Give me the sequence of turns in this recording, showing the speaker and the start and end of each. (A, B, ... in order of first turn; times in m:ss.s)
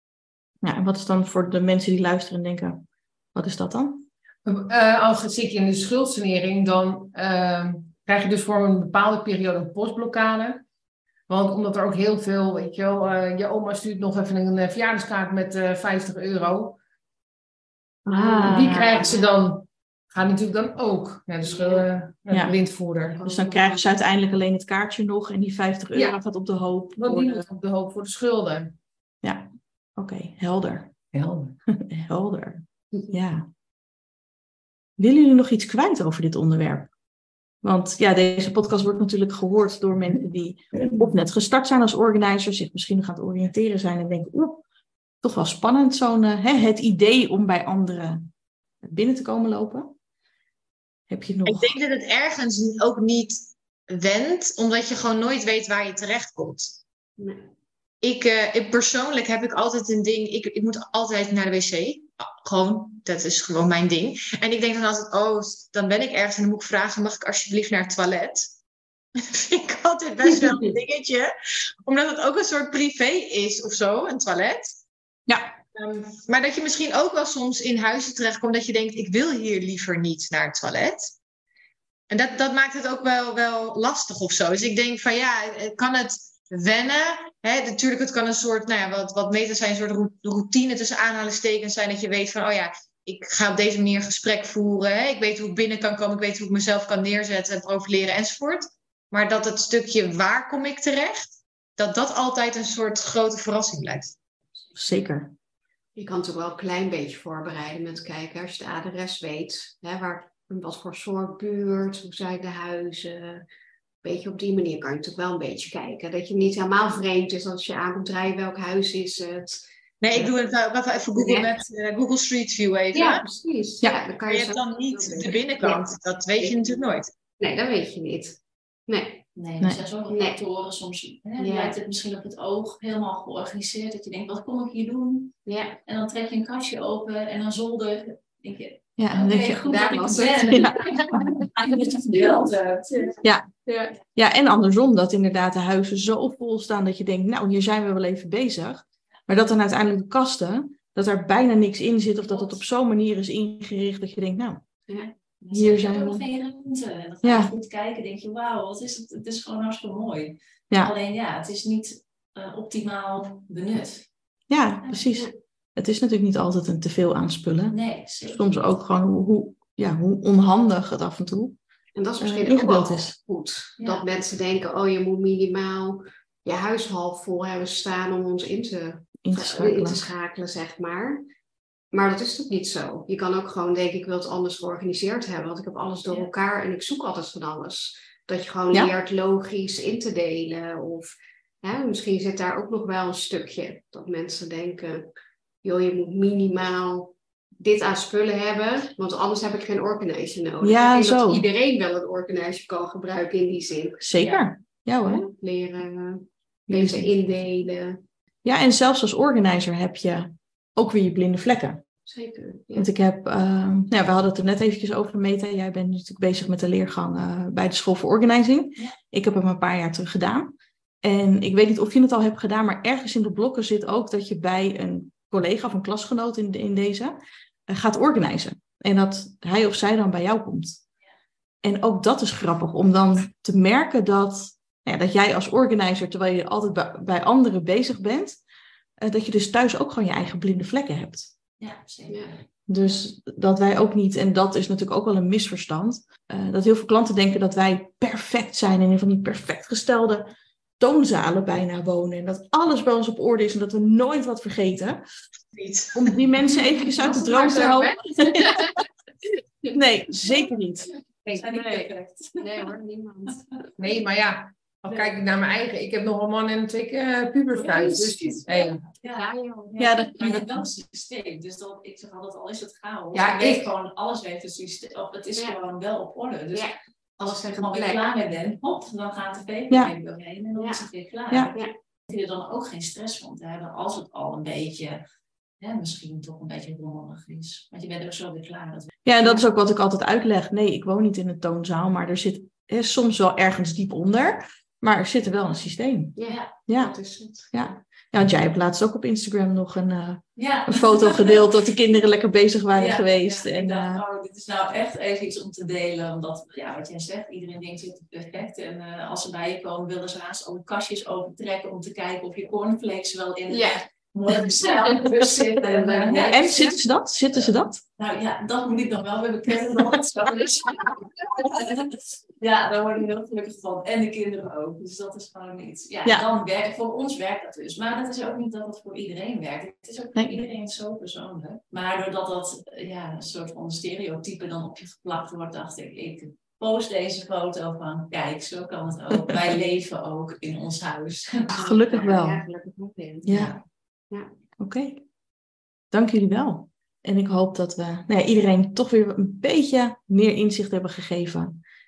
0:00.6-0:04.1 A
0:04.4-0:10.6 B
0:11.3-0:16.8 B
0:18.1-0:19.0 A
0:18.1-0:19.2 C
0:18.1-0:23.2 B
0:21.4-0:21.9 C
0:23.0-0:24.0 C
0:23.2-0:27.5 A
0:27.0-0:28.8 B
0:29.2-0:30.9 A
0:31.1-0:31.6 B
0:31.7-0:33.4 A
0:35.0-0:36.9 A
0:37.6-0:44.6 A
0:45.2-0:48.2 A
0:48.8-0:49.9 A
0:51.1-0:51.8 A
0:51.5-0:53.4 D
0:53.9-0:56.7 D
0:57.2-0:57.4 C
0:58.0-1:08.5 D
1:09.2-1:11.3 D
1:10.3-1:10.7 C
1:11.9-1:14.7 D
1:15.3-1:15.6 A
1:15.7-1:21.1 D
1:22.1-1:41.2 D
1:41.8-1:44.1 D
1:44.8-1:45.3 A
1:46.0-1:53.4 C
1:54.0-2:00.3 C
2:00.0-2:03.2 D
2:01.2-2:01.6 C
2:02.9-2:06.9 C
2:04.3-2:07.1 D
2:07.4-2:08.4 C
2:08.9-2:09.2 C
2:09.4-2:23.1 E
2:10.1-2:10.4 C
2:11.4-2:11.8 C
2:15.4-2:15.8 C
2:19.0-2:19.9 A
2:19.6-2:21.5 C
2:20.4-2:20.8 A
2:22.9-2:24.0 C
2:23.2-2:23.5 A
2:24.2-2:34.6 A
2:32.3-2:32.6 E
2:35.0-2:44.1 E
2:35.5-2:36.2 A
2:37.2-2:37.5 A
2:44.5-2:51.6 A
2:47.7-2:48.6 E
2:52.0-3:01.2 C
2:52.2-2:53.2 A
2:53.8-2:54.0 E
2:59.2-3:00.0 A
3:01.9-3:11.1 C
3:11.6-3:15.0 C
3:15.6-3:24.4 C
3:20.6-3:21.4 A
3:24.0-3:25.2 A
3:25.0-3:28.0 C
3:26.7-3:27.1 A
3:28.4-3:31.8 A
3:32.1-3:32.9 C
3:32.8-3:47.2 A
3:47.7-3:50.8 A
3:51.6-3:58.4 A
3:59.0-4:01.3 A
4:01.6-4:02.4 E
4:02.7-4:10.3 A
4:10.8-4:15.0 A
4:15.5-4:16.1 D
4:16.0-4:18.6 A
4:16.5-4:18.8 C
4:19.7-4:20.9 A
4:21.4-4:22.7 E
4:21.4-4:21.9 C
4:22.4-4:23.4 C
4:23.8-4:28.8 B
4:27.5-4:29.8 C
4:29.0-4:36.7 E
4:29.8-4:30.6 A
4:33.1-4:33.7 B
4:36.5-4:38.1 C
4:37.2-4:45.0 E
4:40.6-4:40.9 C
4:45.6-4:48.9 E
4:49.0-4:56.2 A
4:56.2-4:57.8 C
4:56.7-4:57.0 A
4:57.5-5:04.0 A
5:00.4-5:01.5 E
5:02.7-5:16.7 E
5:13.5-5:13.8 C
5:14.6-5:16.7 C
5:16.2-5:17.8 A
5:17.3-5:41.5 E
5:30.2-5:30.4 A
5:41.5-5:43.5 C
5:41.5-5:42.4 A
5:43.3-5:43.6 A
5:43.3-5:43.6 E
5:44.6-5:45.0 A
5:45.9-5:51.6 A